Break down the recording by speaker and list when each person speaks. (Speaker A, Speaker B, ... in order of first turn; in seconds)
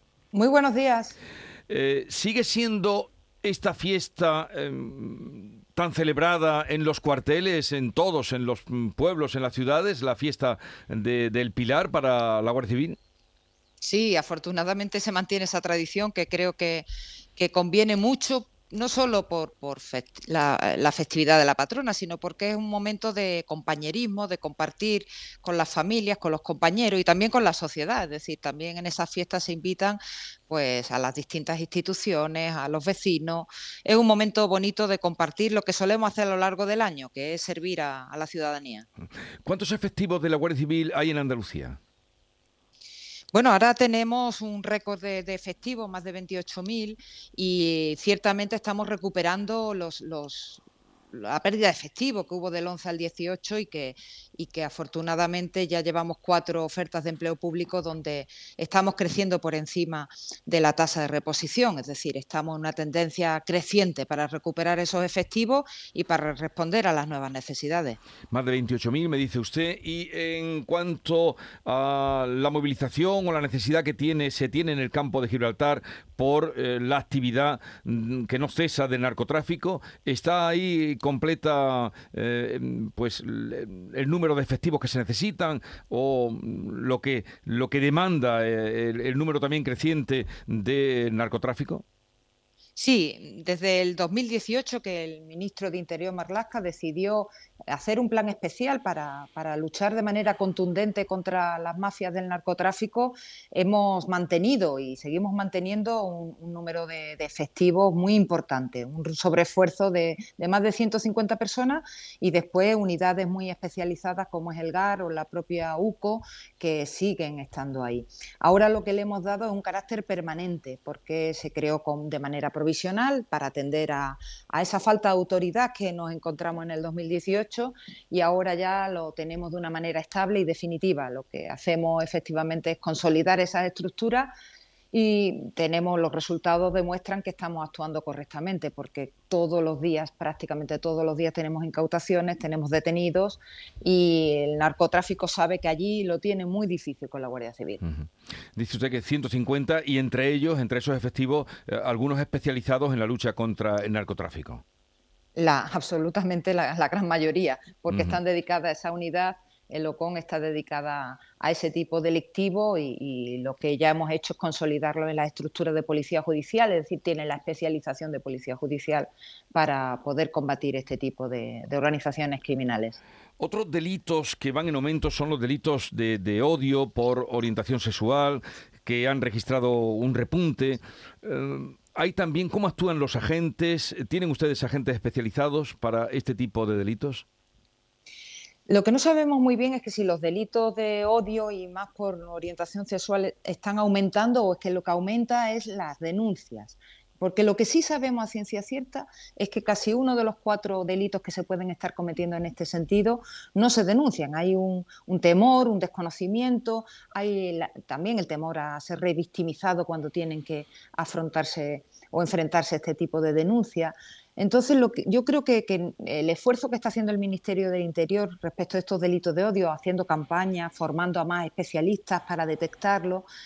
Speaker A: 0.3-1.2, 13.8-38.9, 43.3-68.0, 92.8-134.3, 134.9-147.8, 155.3-173.0, 188.7-223.3
Speaker B: 1.7-13.0, 39.4-41.8, 68.3-91.8, 147.8-154.6, 157.9-158.2, 173.4-187.2